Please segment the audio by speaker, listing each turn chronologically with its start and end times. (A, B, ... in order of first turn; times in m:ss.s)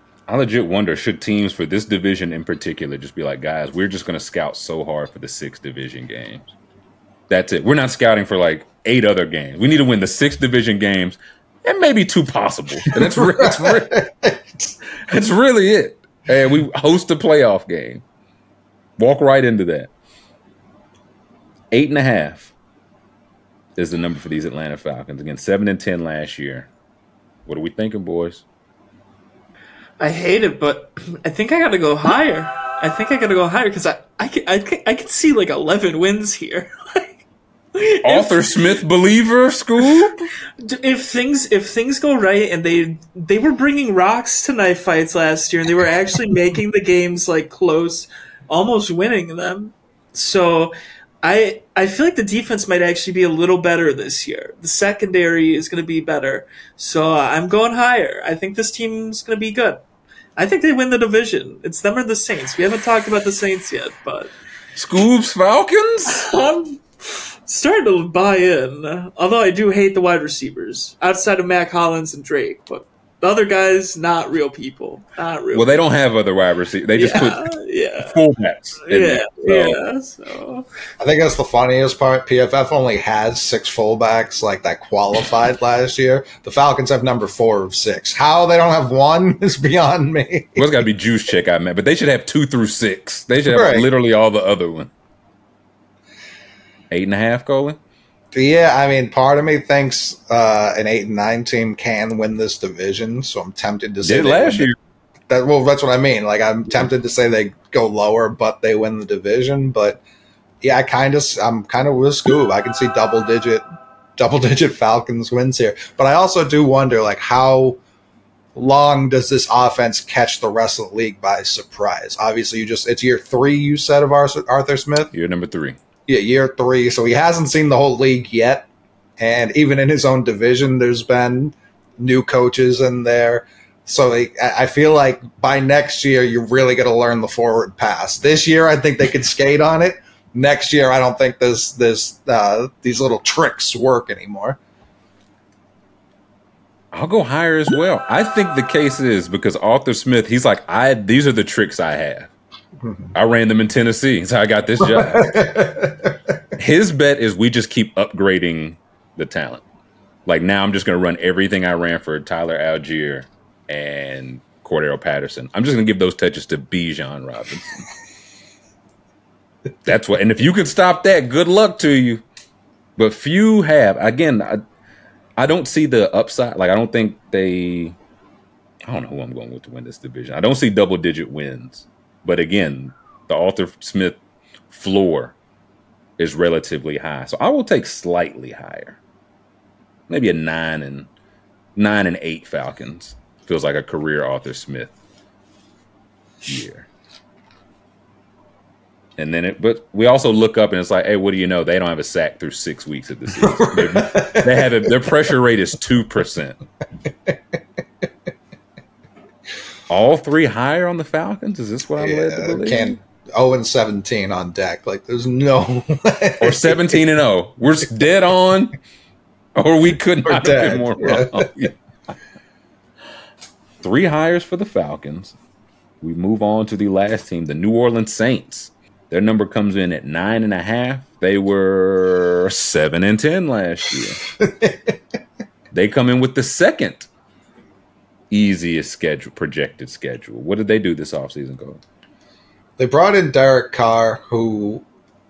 0:00.3-0:06.5 A
0:07.3-0:14.0 A
0:12.9-0:14.8 B
0:15.0-0:18.0 A
0:19.0-0:19.9 A
0:21.7-0:22.5 A
0:23.8-0:26.7 A
0:27.5-0:28.4 A
0:30.0-0:38.8 C
0:38.0-0:40.3 A
0:40.6-0:59.8 C
1:00.4-1:04.3 C
1:04.8-1:06.3 A
1:06.1-1:15.7 C
1:15.5-1:17.5 A
1:17.0-1:18.2 C
1:18.0-1:19.8 A
1:18.8-1:20.7 C
1:21.0-1:30.7 B
1:30.6-1:34.9 A
1:33.5-1:33.9 B
1:36.9-1:37.8 A
1:38.3-1:44.7 B
1:44.0-1:44.8 A
1:45.3-1:50.0 B
1:50.6-1:53.6 B
1:54.2-1:57.8 B
1:58.6-2:05.1 B
2:05.1-2:05.8 A
2:06.1-2:08.7 B
2:09.2-2:24.6 B
2:26.9-2:32.3 A
2:32.8-2:33.1 B
2:33.1-2:35.5 A
2:34.9-2:36.2 B
2:36.6-2:39.6 A
2:40.3-2:47.8 A
2:49.8-2:52.2 A
2:53.0-2:54.6 A
2:55.4-2:58.0 A
2:58.9-3:05.4 A
3:06.2-3:09.0 A
3:10.1-3:11.1 A
3:11.8-3:14.9 A
3:16.4-3:16.9 A
3:19.2-3:26.6 A
3:23.4-3:24.9 B
3:29.9-3:33.0 A
3:32.0-3:37.0 B
3:36.4-3:38.8 A
3:39.6-3:41.7 A
3:40.2-3:41.7 B
3:43.8-3:45.4 A
3:46.0-3:54.2 A
3:54.4-3:55.0 B
3:55.7-3:57.1 A
3:58.3-4:01.8 A
4:02.8-4:04.8 B